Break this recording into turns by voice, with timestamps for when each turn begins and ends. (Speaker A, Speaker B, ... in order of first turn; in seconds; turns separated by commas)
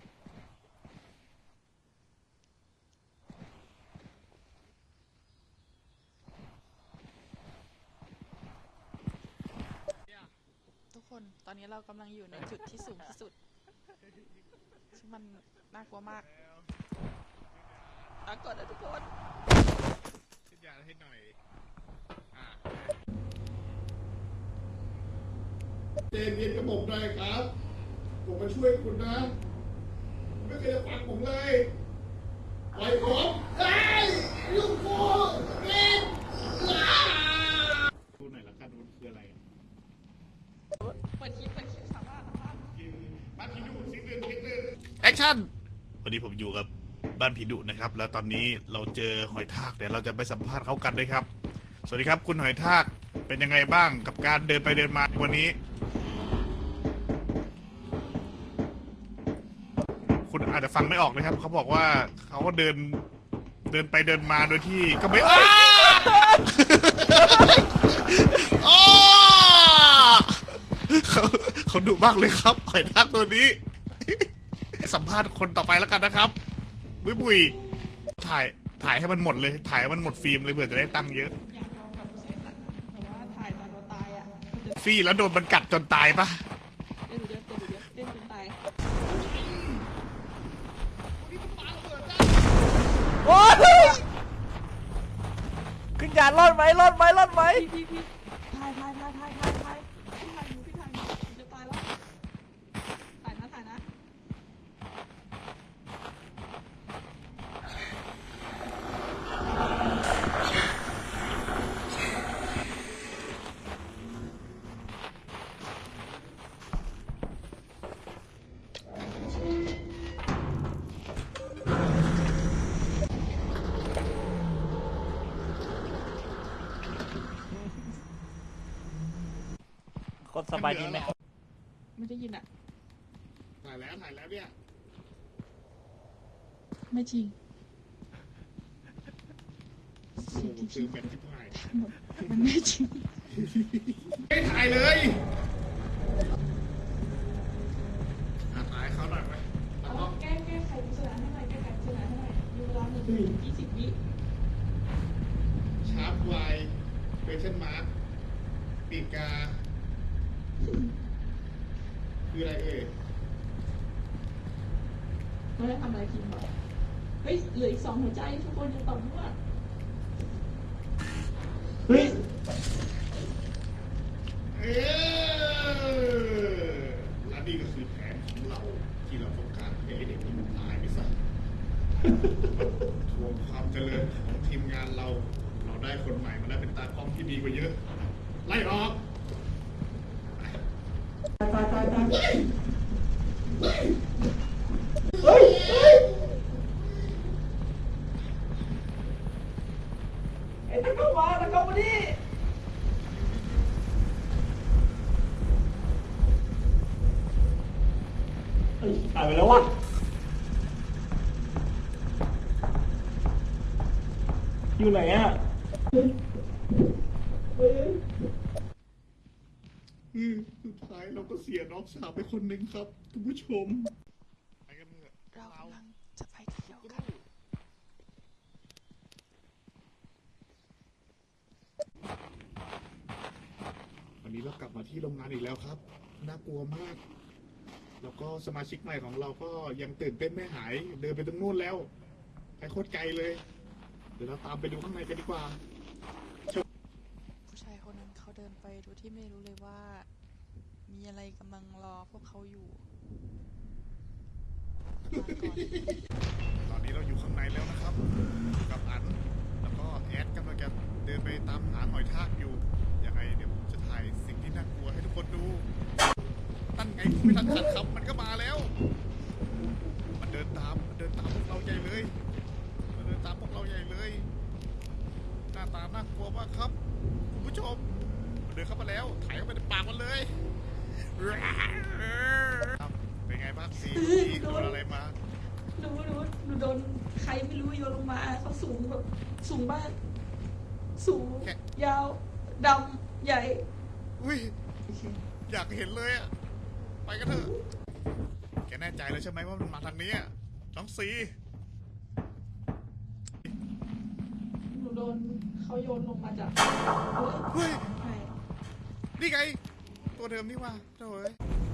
Speaker A: 10.9-13.3, Speaker A: 14.9-16.2, Speaker B: 16.1-16.7, Speaker B: 17.5-18.1, Speaker A: 18.2-19.1, Speaker B: 20.5-21.4, Speaker B: 22.3-22.8, Speaker B: 26.1-27.5, Speaker B: 28.2-29.3, Speaker B: 30.3-31.7, Speaker B: 32.7-39.4, Speaker A: 40.8-42.8, Speaker B: 42.7-45.5, Speaker B: 46.0-51.3, Speaker B: 51.9-55.5, Speaker B: 60.2-63.0, Speaker B: 63.7-74.2, Speaker B: 74.8-76.3, Speaker B: 77.0-77.6, Speaker B: 78.2-81.3, Speaker A: 80.8-84.8, Speaker B: 84.8-86.3, Speaker A: 87.1-88.5, Speaker B: 89.0-89.9, Speaker B: 91.2-92.6, Speaker C: 93.2-94.0, Speaker C: 96.0-97.7, Speaker A: 97.4-101.9, Speaker A: 103.2-103.8, Speaker C: 130.2-131.2, Speaker B: 130.5-131.1, Speaker A: 132.0-132.4, Speaker B: 133.6-134.5, Speaker A: 136.9-137.3, Speaker A: 140.2-143.1, Speaker B: 140.2-141.6, Speaker B: 143.3-145.2, Speaker B: 148.5-150.2, Speaker A: 149.8-154.0, Speaker B: 155.8-157.9, Speaker B: 158.9-159.6, Speaker A: 160.6-160.9, Speaker B: 162.3-162.9, Speaker A: 165.6-166.5, Speaker A: 167.2-169.3, Speaker A: 171.9-172.1, Speaker B: 174.5-181.1, Speaker B: 182.4-187.8, Speaker B: 188.4-189.0, Speaker A: 191.5-192.4, Speaker B: 195.2-196.3, Speaker A: 200.7-202.2, Speaker C: 208.8-209.7, Speaker C: 214.8-215.4, Speaker B: 220.1-223.9, Speaker B: 224.7-225.8, Speaker A: 225.3-227.1, Speaker B: 226.6-227.2, Speaker B: 234.2-237.0, Speaker B: 238.0-241.9, Speaker B: 242.6-243.4, Speaker B: 244.2-245.6, Speaker A: 247.5-250.1, Speaker A: 250.9-252.8, Speaker A: 255.0-255.7, Speaker B: 255.1-255.9, Speaker B: 256.6-258.0, Speaker B: 258.6-265.7, Speaker B: 266.8-268.7, Speaker B: 270.2-272.1, Speaker B: 272.9-274.3, Speaker B: 275.5-276.8, Speaker B: 277.3-280.3, Speaker B: 281.1-285.1, Speaker A: 283.8-284.8, Speaker A: 285.8-290.0, Speaker A: 291.0-293.6, Speaker B: 294.2-294.5, Speaker A: 294.9-295.2, Speaker B: 295.5-296.3, Speaker B: 297.0-297.5, Speaker A: 297.2-297.5, Speaker B: 298.7-301.3, Speaker A: 304.7-308.3, Speaker B: 307.5-307.9, Speaker B: 309.2-309.6, Speaker B: 310.1-311.4